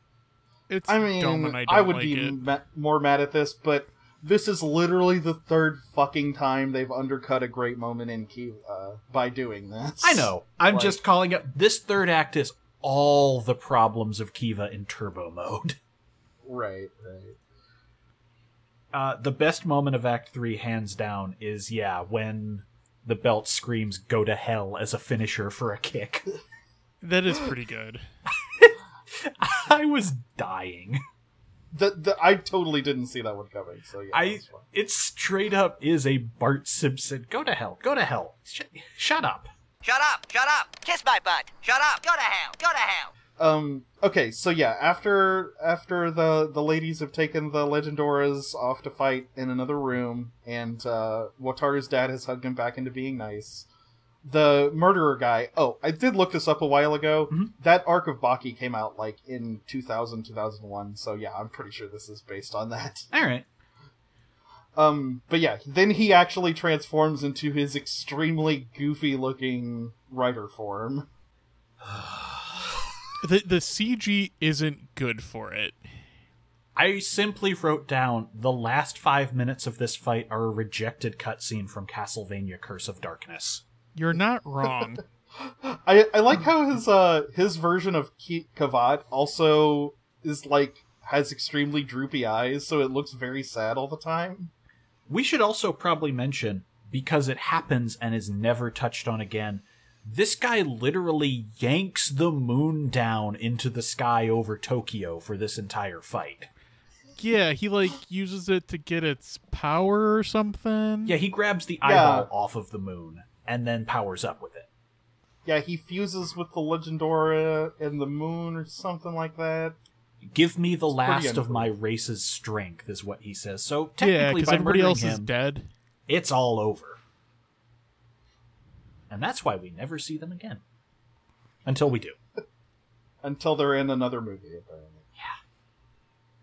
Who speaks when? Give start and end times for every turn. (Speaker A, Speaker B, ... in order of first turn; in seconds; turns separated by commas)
Speaker A: 0.7-2.4, Speaker B: 0.9-11.0, Speaker C: 10.0-15.8, Speaker B: 16.4-17.4, Speaker C: 18.9-26.3, Speaker A: 27.0-28.0, Speaker C: 28.4-31.0, Speaker B: 31.7-34.6, Speaker C: 34.1-39.5, Speaker D: 39.8-43.1, Speaker B: 43.4-53.7, Speaker B: 54.2-63.1, Speaker C: 63.1-63.5, Speaker B: 64.8-71.1, Speaker C: 71.8-72.9, Speaker A: 73.2-75.8, Speaker C: 76.8-83.6, Speaker A: 84.0-85.0, Speaker B: 85.4-94.5, Speaker C: 95.1-106.5, Speaker A: 107.2-111.2, Speaker C: 111.1-114.7, Speaker B: 111.8-112.3, Speaker B: 115.5-119.8, Speaker C: 120.3-125.3, Speaker B: 121.0-121.7, Speaker A: 124.0-125.7, Speaker C: 126.1-127.0, Speaker C: 129.1-130.6, Speaker C: 131.7-132.2, Speaker B: 133.2-135.1